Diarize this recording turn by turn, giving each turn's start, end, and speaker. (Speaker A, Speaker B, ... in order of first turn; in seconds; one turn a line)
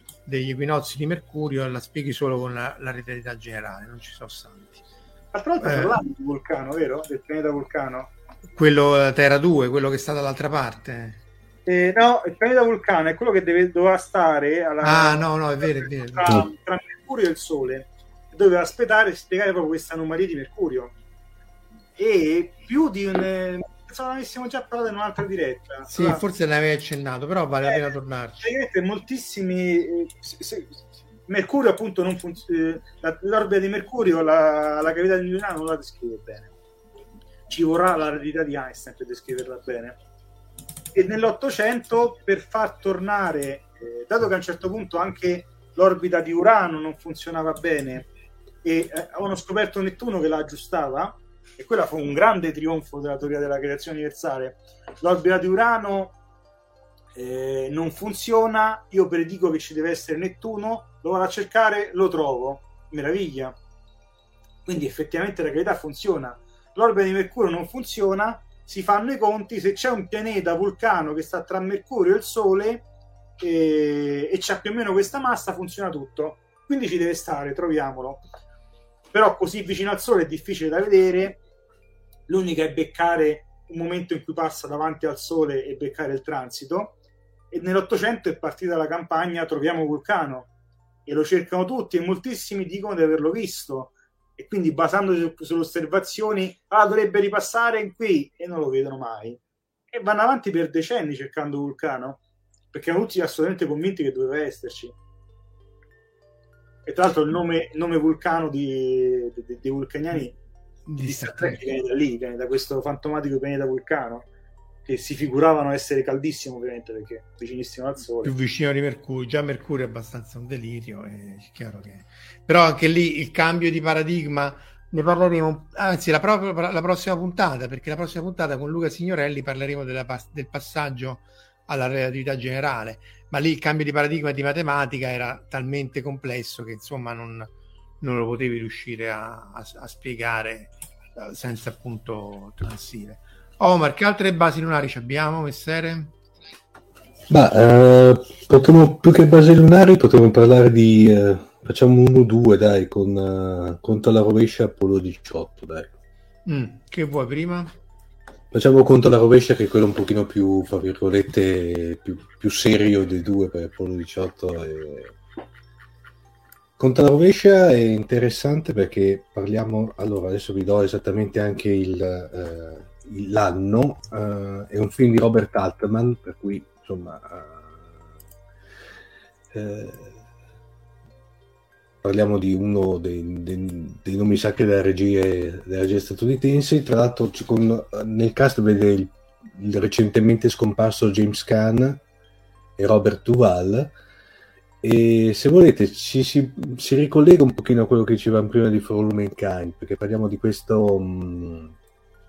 Speaker A: 0.3-4.8
Speaker B: 5.3-8.1
Speaker A: 5.6-6.0
Speaker A: 8.6-11.2
Speaker B: 11.7-20.9
Speaker A: 14.8-16.3
Speaker B: 22.0-26.2
Speaker A: 25.9-28.5
Speaker B: 28.4-30.7
Speaker B: 31.3-36.5
Speaker B: 37.5-40.0
Speaker B: 40.9-48.1
Speaker B: 48.6-56.2
Speaker B: 57.1-63.5
Speaker B: 64.7-72.8
Speaker B: 73.4-78.2
Speaker B: 79.1-81.4
Speaker B: 82.3-87.0
Speaker B: 87.5-90.5
Speaker B: 91.1-99.4
Speaker B: 99.9-102.2
Speaker B: 102.7-105.0
Speaker B: 106.9-110.4
Speaker A: 110.9-111.6
Speaker B: 111.0-114.3
Speaker B: 114.9-118.3
Speaker A: 118.2-137.5
Speaker A: 138.0-146.1
Speaker C: 147.3-155.9
Speaker A: 156.5-157.7
Speaker C: 158.5-165.2
Speaker C: 166.8-178.1
Speaker C: 179.5-180.2
Speaker C: 182.0-192.0
Speaker C: 192.8-193.9
Speaker C: 194.8-201.8